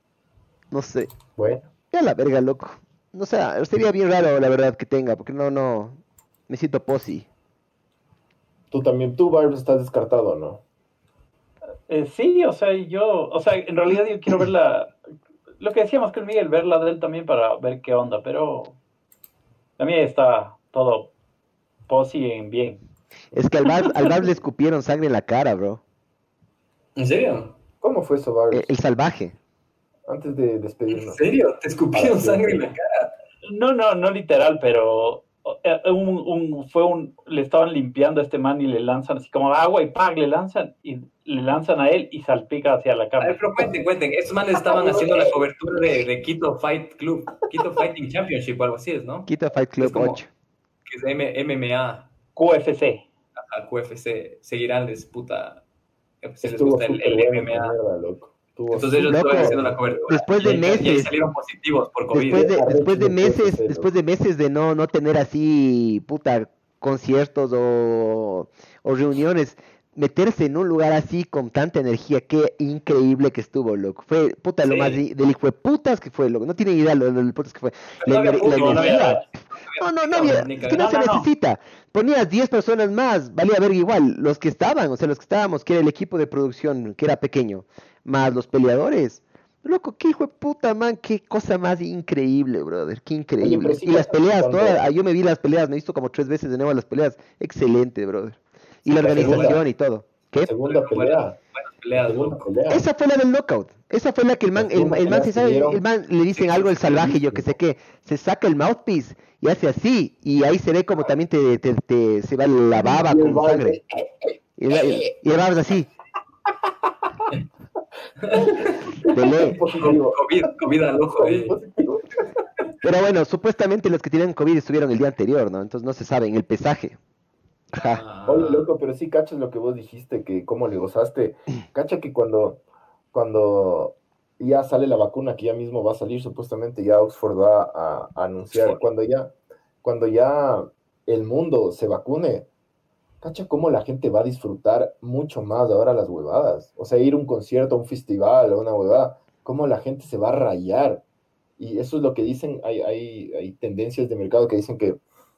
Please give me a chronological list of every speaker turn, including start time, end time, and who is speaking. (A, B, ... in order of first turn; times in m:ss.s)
0:00.7-0:01.1 A
0:01.4-0:01.7 B
0:01.9-0:07.3 A
0:08.7-0:10.6 B
0:11.9-0:14.9 C
0:15.6-0:18.8 C
0:19.8-0:21.1 C
0:21.9-0:22.8 C
0:23.3-0:25.8 A
0:27.0-0:27.6 D
0:27.8-0:28.7 B
0:28.5-0:29.4 A
0:30.1-0:31.2 B
0:30.9-0:33.1 D
0:31.9-0:32.7 B
0:33.4-0:43.4 C
0:43.2-0:50.2 D
0:44.6-0:45.3 B
0:49.3-0:50.3 A
0:50.8-0:52.1 D
0:52.4-0:53.0 C
0:53.4-0:55.6 D
0:56.2-0:57.8 D
0:56.4-1:00.0 B
0:58.7-1:02.6 D
0:59.0-1:01.1 A
1:02.1-1:19.2 A
1:02.3-1:03.9 B
1:14.6-1:15.0 D
1:18.0-1:21.0 D
1:18.4-1:19.2 C
1:19.8-1:40.5 A
1:20.7-1:21.3 C
1:33.4-1:34.8 B
1:38.9-1:39.6 D
1:38.9-1:39.6 B
1:40.4-1:41.4 B
1:40.6-1:42.5 D
1:41.9-1:42.8 B
1:42.7-1:53.8 A
1:44.6-1:45.8 B
1:46.3-1:47.2 D
1:47.2-1:47.5 B
1:52.7-1:55.1 B
1:54.6-1:55.9 A
1:58.2-1:58.9 D
1:58.3-2:00.2 B
1:59.1-1:59.6 A
1:59.7-2:01.5 D
2:01.2-2:02.2 B
2:02.8-2:07.0 A
2:07.7-2:08.0 A
2:07.7-2:08.7 D
2:08.2-2:12.6 B
2:13.1-2:19.3 B
2:18.5-2:18.8 D
2:19.8-2:22.5 B
2:23.2-2:31.0 B
2:31.6-2:35.0 B